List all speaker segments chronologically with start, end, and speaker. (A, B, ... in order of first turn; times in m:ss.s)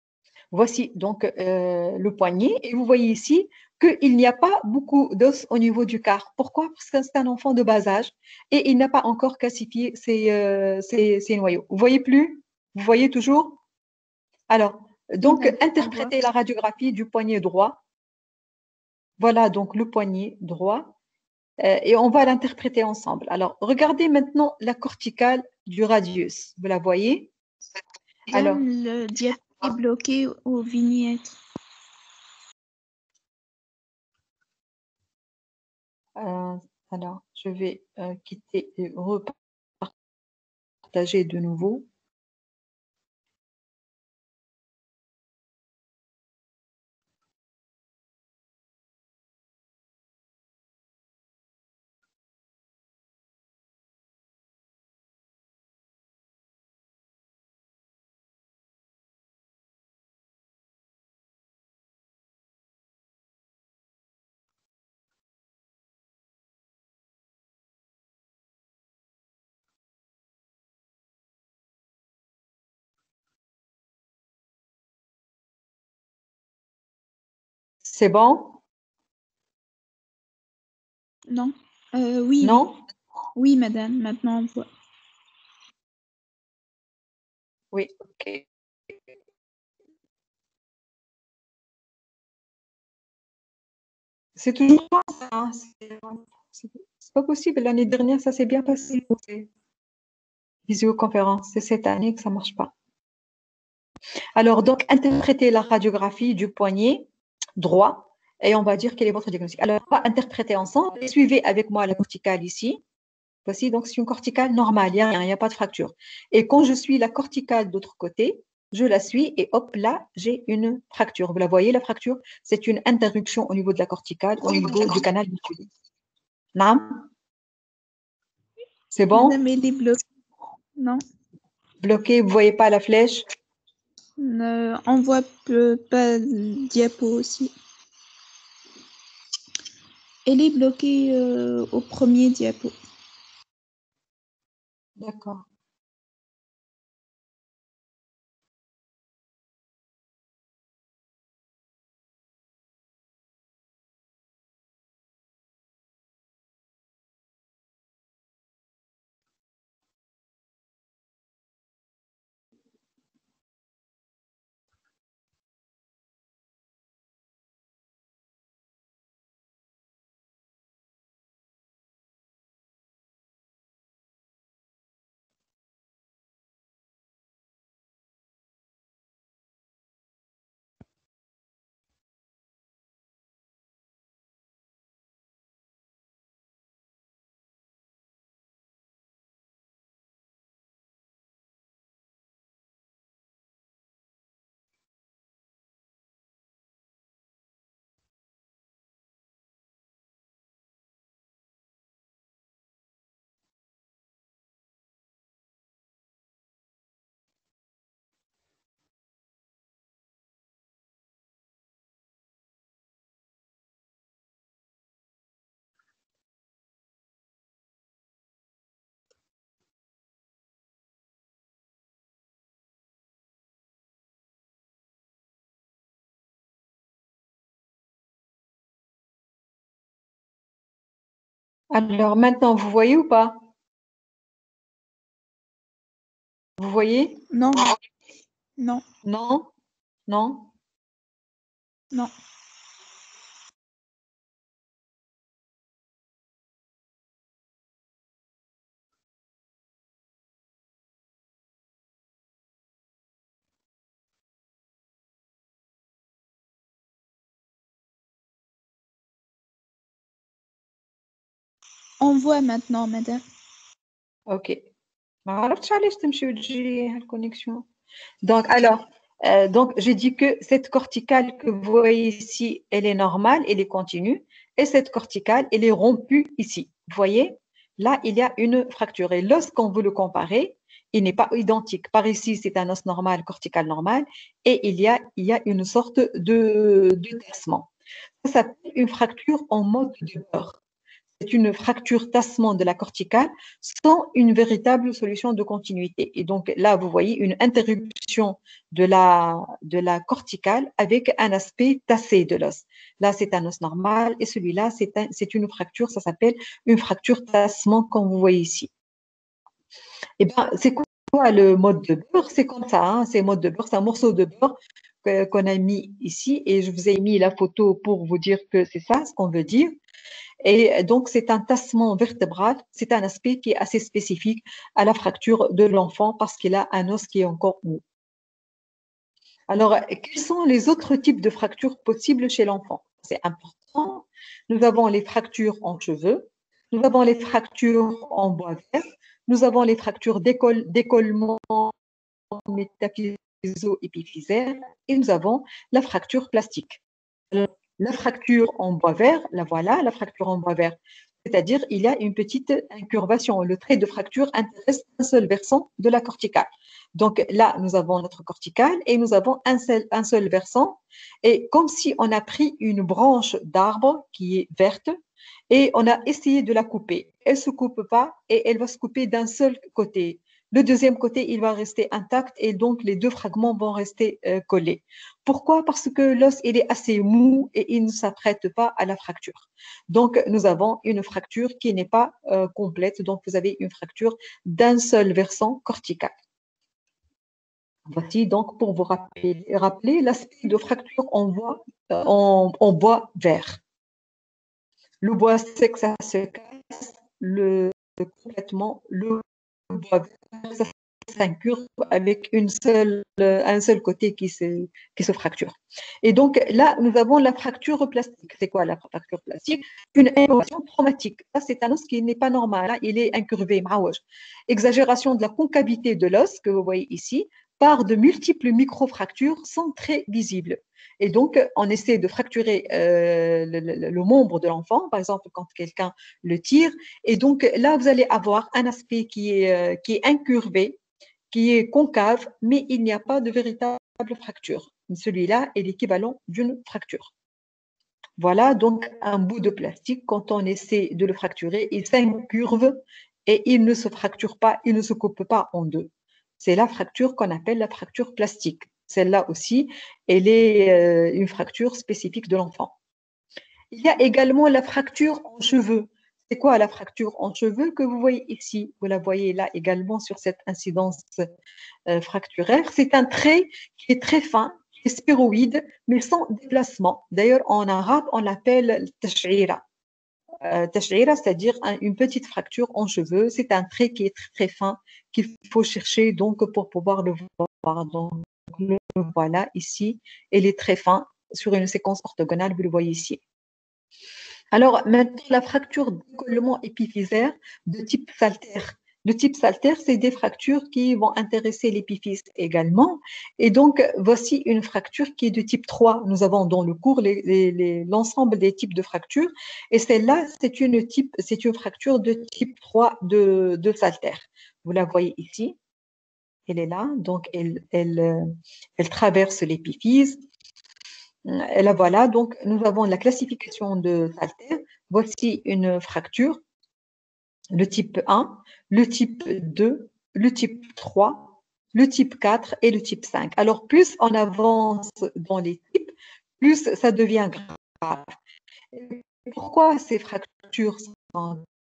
0:00.5-0:13.6 A
0:14.5-0:17.8 A
0:15.2-0:16.1 B
0:19.2-0:20.9 A
0:21.6-0:27.3 A
0:28.3-0:31.3 B
0:28.3-0:28.6 A
0:36.2-0:39.9 A
0:40.9-0:41.9 A
1:17.8-1:18.6 A
1:21.3-1:22.6 B
1:22.4-1:22.8 A
1:23.3-1:24.7 B
1:27.7-1:28.4 A
1:34.4-1:39.5 A
1:40.7-1:42.7 A
1:44.4-1:52.8 A
1:53.4-2:05.7 A
2:04.5-2:05.0 B
2:06.5-2:07.0 A
2:08.9-2:09.4 A
2:09.1-2:10.0 B
2:11.8-2:13.2 A
2:14.2-2:17.5 B
2:20.2-2:22.7 B
2:25.0-2:25.4 A
3:51.7-3:53.4 A
3:56.6-3:57.2 A
3:57.3-3:57.7 B
3:58.6-3:58.8 B
3:59.0-3:59.5 A
4:00.1-4:00.5 A
4:22.0-4:23.2 B
4:24.3-4:24.6 A
4:25.2-4:27.6 A
4:28.2-4:47.7 A
4:48.2-4:50.6 A
4:51.2-5:08.7 A
5:10.2-5:19.7 A
5:20.4-5:27.8 A
5:29.5-5:41.7 A
5:42.3-5:46.8 A
5:47.3-6:05.0 A
6:05.5-6:26.2 A
6:27.9-6:33.6 A
6:35.0-7:10.8 A
7:11.3-7:17.1 A
7:18.2-7:32.7 A
7:33.7-7:41.2 A
7:41.9-7:49.6 A
7:50.4-8:03.2 A
8:04.5-8:25.6 A
8:26.5-8:30.2 A
8:31.2-8:36.4 A
8:37.5-8:48.1 A
8:48.7-8:51.4 A